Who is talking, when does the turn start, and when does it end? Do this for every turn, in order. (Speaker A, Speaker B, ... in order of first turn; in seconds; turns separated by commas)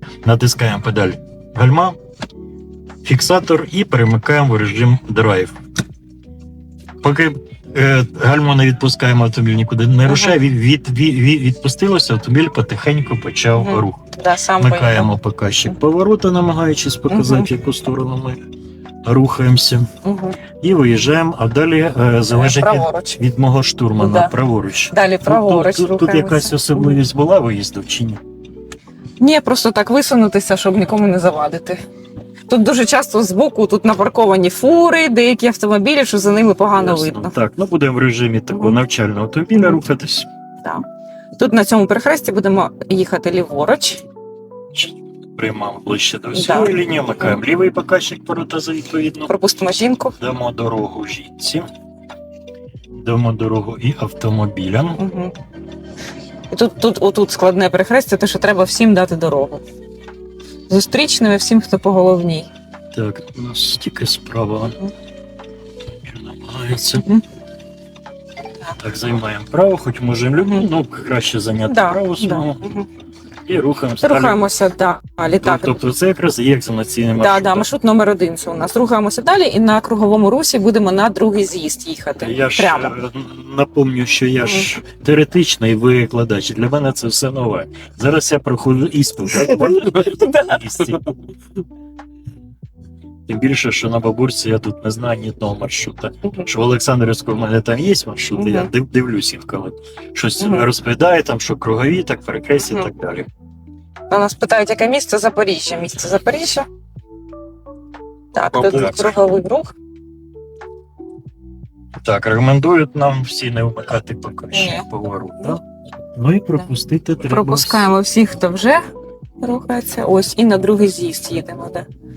Speaker A: 0.2-2.0, Speaker A: 3.0-5.5, Speaker A: 7.0-14.1, Speaker B: 10.1-10.4, Speaker B: 13.6-15.1, Speaker A: 14.6-18.4, Speaker B: 17.1-17.5, Speaker A: 19.0-19.9, Speaker B: 20.1-20.4, Speaker A: 20.6-28.2, Speaker B: 22.3-23.2, Speaker B: 24.0-24.3, Speaker B: 24.9-27.0, Speaker B: 29.2-31.8, Speaker B: 32.5-37.3, Speaker A: 36.8-40.3, Speaker B: 38.5-38.8, Speaker B: 41.4-44.0, Speaker A: 44.7-49.3, Speaker B: 46.3-46.8, Speaker B: 49.3-50.2, Speaker A: 50.2-51.7, Speaker A: 53.0-55.0, Speaker B: 55.0-55.3, Speaker B: 56.5-59.6, Speaker B: 60.7-62.5, Speaker A: 62.9-64.8, Speaker A: 66.0-67.1, Speaker B: 67.0-67.2, Speaker A: 68.8-72.7, Speaker B: 70.4-70.7, Speaker B: 71.7-72.9, Speaker A: 73.5-74.5, Speaker B: 74.0-75.8, Speaker A: 75.4-77.7, Speaker B: 77.2-82.9, Speaker A: 82.2-91.1, Speaker B: 84.5-84.7, Speaker B: 89.3-90.8, Speaker A: 93.3-103.3, Speaker B: 98.3-98.7, Speaker B: 100.4-100.7, Speaker B: 102.6-102.9, Speaker B: 104.1-106.7, Speaker B: 108.3-109.8, Speaker A: 108.5-109.2, Speaker A: 112.0-115.6, Speaker B: 114.5-114.9, Speaker A: 116.2-117.9, Speaker B: 117.2-118.9, Speaker B: 119.4-121.9